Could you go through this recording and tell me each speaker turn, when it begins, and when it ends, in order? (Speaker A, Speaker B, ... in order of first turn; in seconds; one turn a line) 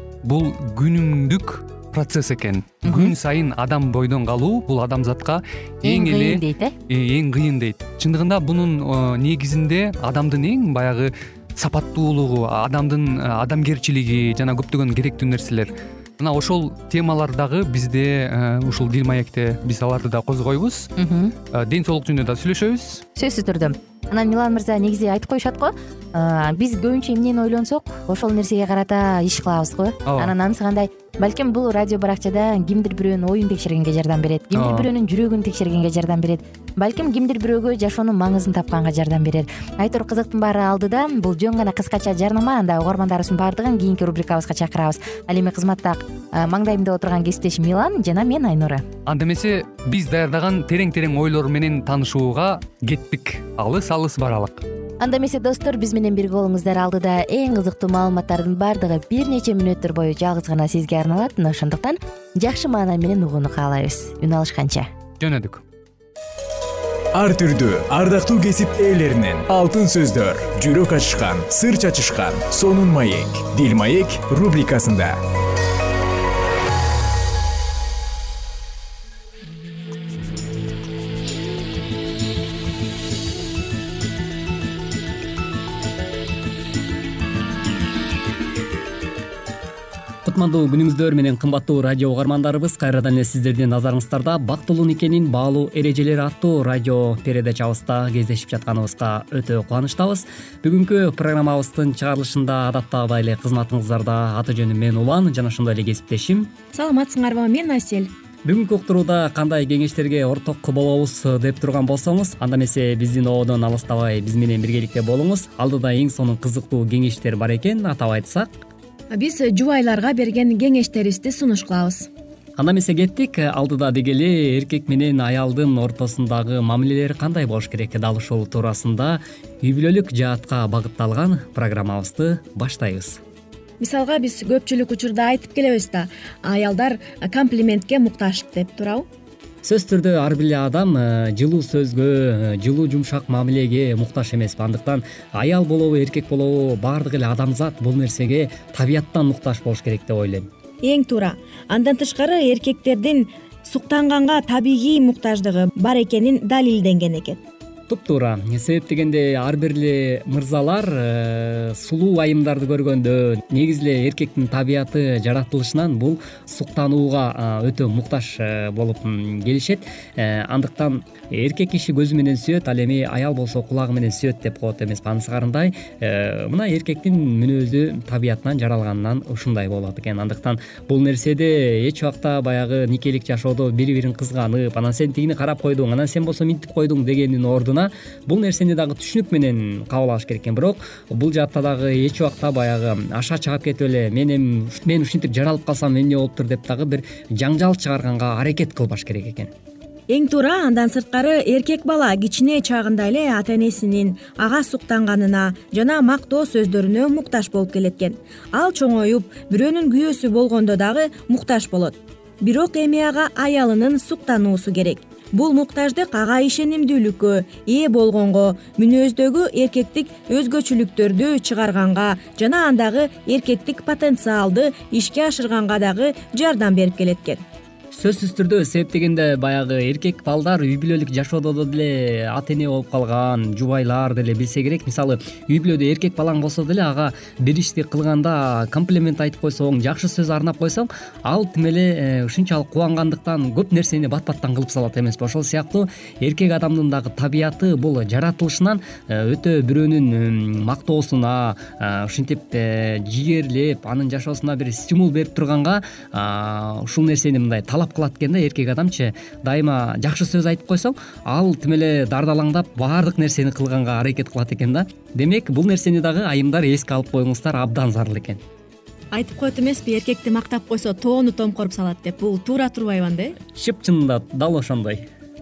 Speaker A: 0.2-20.9
Speaker B: 2.8-3.1
Speaker B: 5.8-6.7
Speaker B: 21.0-21.3
Speaker A: 21.5-23.0
Speaker B: 23.2-48.9
Speaker A: 30.1-30.3
Speaker A: 34.5-34.9
Speaker A: 49.1-54.6
Speaker B: 55.0-64.9
Speaker A: 65.2-65.6
Speaker C: 67.2-75.2
Speaker D: 90.2-106.5
Speaker E: 106.7-108.1
Speaker D: 108.5-118.6
Speaker E: 119.1-122.1
Speaker D: 122.6-133.2
Speaker E: 133.8-139.1
Speaker D: 139.6-150.5
Speaker E: 150.8-157.4
Speaker D: 157.9-199.5
Speaker E: 200.1-227.4
Speaker D: 227.9-268.4
Speaker E: 269.1-273.4
Speaker D: 273.6-275.1